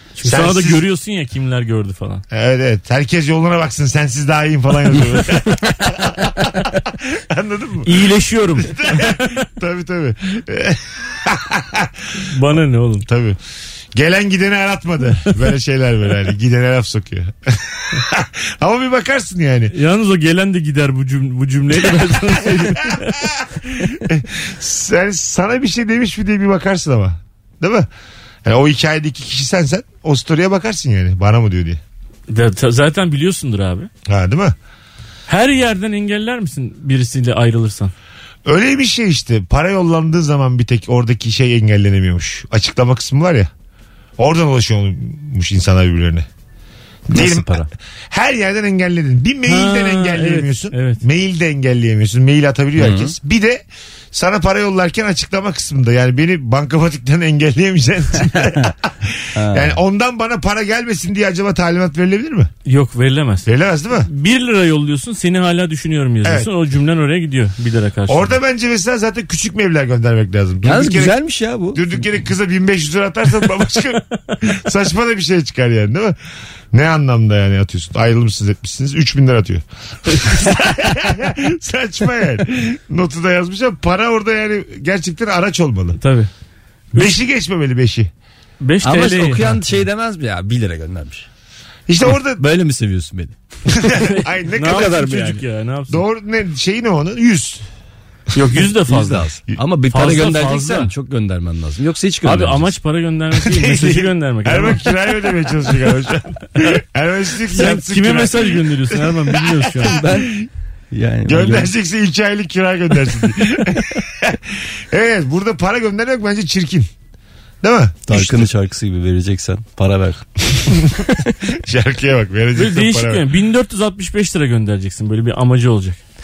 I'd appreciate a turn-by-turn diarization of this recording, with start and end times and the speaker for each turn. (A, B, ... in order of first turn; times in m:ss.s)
0:00.2-0:02.2 A
0:00.2-0:00.8 B
0:02.3-0:07.9 B
0:07.8-0:09.2 A
0:08.6-0:11.9 B
0:12.3-0:13.0 A
0:13.0-0:13.4 B
0:13.9-0:19.7 B
0:19.7-0:23.2 A
0:22.4-0:27.9 B
0:28.4-0:31.8 B
0:32.3-0:33.9 A
0:34.1-0:34.6 B
0:35.3-0:37.9 A
0:38.4-0:43.5 B
0:44.2-0:46.3 B
0:47.1-1:02.5 B
0:47.1-0:47.7 C
0:49.4-0:51.0 A
0:52.8-0:53.1 C
0:59.3-0:59.8 C
1:02.7-1:03.5 A
1:03.4-1:04.1 B
1:04.0-1:08.4 A
1:06.2-1:06.5 B
1:08.1-1:11.2 B
1:10.6-1:12.0 C
1:11.7-1:16.2 B
1:16.7-1:26.0 B
1:26.0-1:26.3 A
1:27.0-1:28.1 B
1:28.6-1:29.6 A
1:28.8-1:31.3 C
1:31.9-1:32.4 B
1:32.4-1:33.4 C
1:33.8-1:37.6 B
1:34.1-1:36.0 A
1:38.3-1:39.3 A
1:38.9-1:42.7 C
1:39.9-1:40.9 A
1:42.2-1:44.9 A
1:43.5-1:49.2 B
1:47.5-1:50.0 A
1:49.8-1:50.4 B
1:49.9-1:50.4 C
1:50.9-1:51.7 C
1:51.3-1:56.9 B
1:57.6-1:58.5 B
1:58.1-2:00.2 C
2:01.6-2:03.2 B
2:02.6-2:06.0 A